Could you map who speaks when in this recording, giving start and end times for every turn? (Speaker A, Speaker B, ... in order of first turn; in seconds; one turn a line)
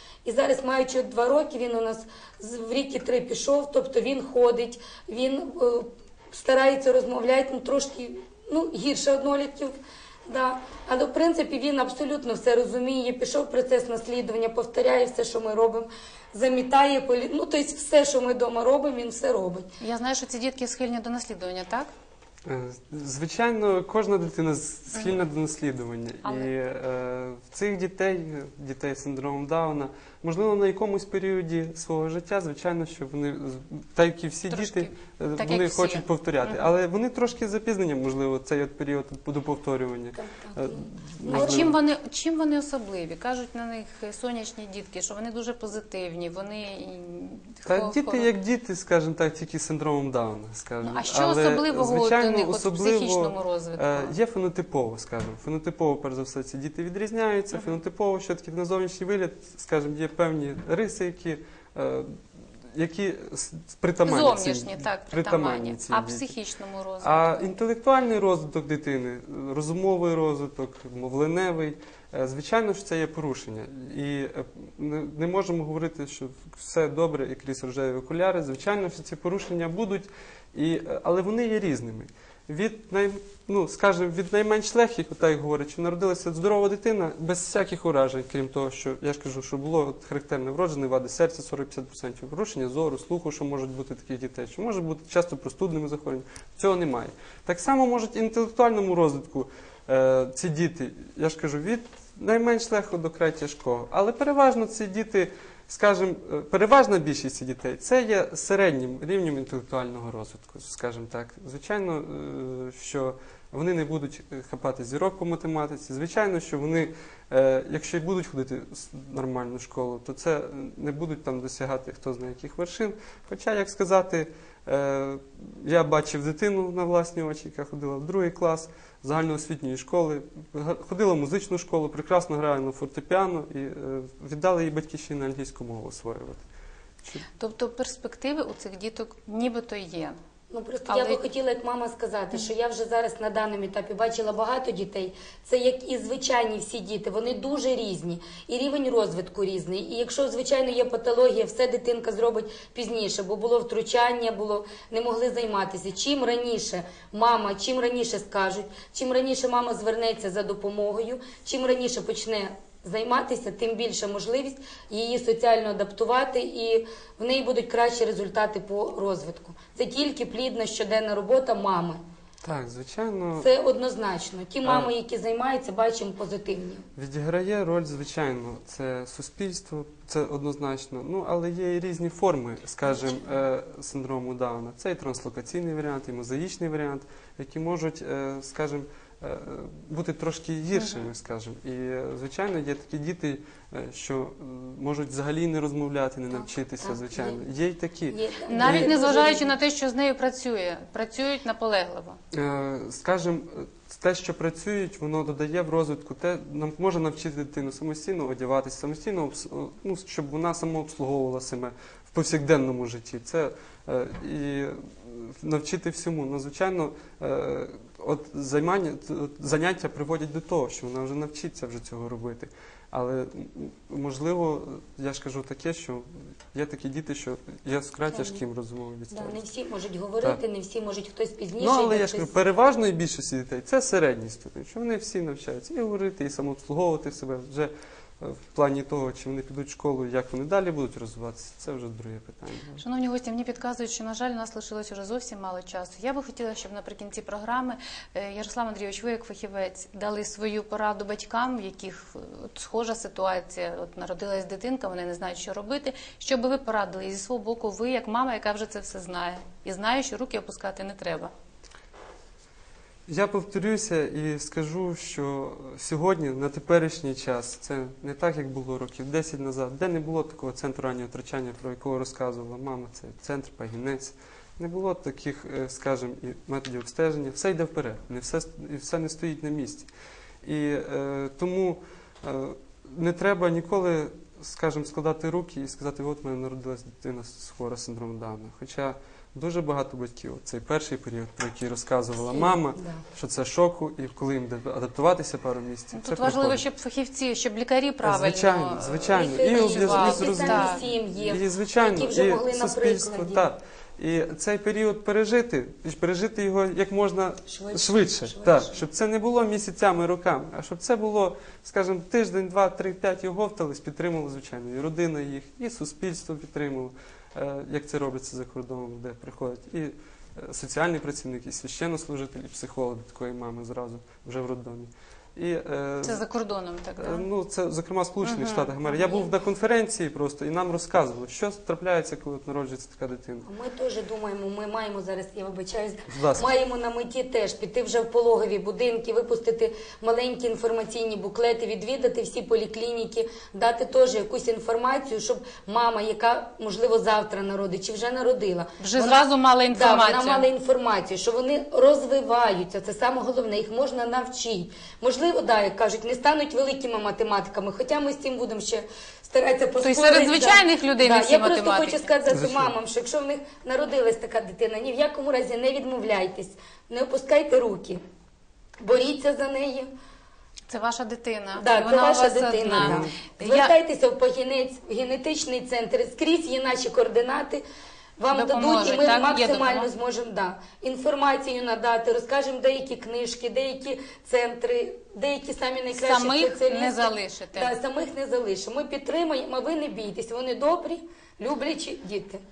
Speaker A: 0.2-9.8
Speaker A: 10.3-19.7
Speaker B: 19.8-21.9
Speaker C: 22.5-41.8
Speaker B: 26.2-26.5
Speaker B: 34.5-36.6
Speaker A: 40.2-41.7
Speaker B: 41.3-48.3
Speaker C: 47.7-62.2
Speaker B: 50.8-54.1
Speaker C: 62.7-66.3
Speaker B: 64.0-67.5
Speaker C: 67.0-136.4
Speaker B: 137.3-140.2
Speaker A: 140.5-172.0
Speaker B: 140.9-141.2
Speaker C: 172.4-173.5
Speaker A: 173.4-176.8
Speaker C: 174.6-174.9
Speaker C: 177.0-199.0
Speaker B: 190.8-191.1
Speaker A: 196.4-197.4
Speaker A: 198.1-199.5
Speaker B: 198.5-202.2
Speaker C: 202.3-229.4
Speaker A: 228.1-228.4
Speaker A: 229.1-232.3
Speaker C: 231.6-242.8
Speaker B: 242.8-261.3
Speaker C: 263.1-279.9
Speaker C: 280.4-296.6
Speaker A: 292.3-293.0
Speaker B: 295.9-300.8
Speaker C: 298.0-326.2
Speaker A: 299.1-303.4
Speaker A: 307.5-308.8
Speaker B: 326.0-327.3
Speaker C: 327.0-333.5
Speaker B: 328.2-329.3
Speaker A: 333.5-368.0
Speaker C: 336.1-336.5
Speaker B: 348.8-350.5
Speaker B: 359.8-362.1
Speaker C: 362.3-362.7
Speaker A: 368.8-369.9
Speaker B: 370.7-373.8
Speaker A: 371.6-377.6
Speaker C: 372.7-373.2
Speaker A: 378.2-392.4
Speaker B: 378.3-379.9
Speaker B: 385.9-387.8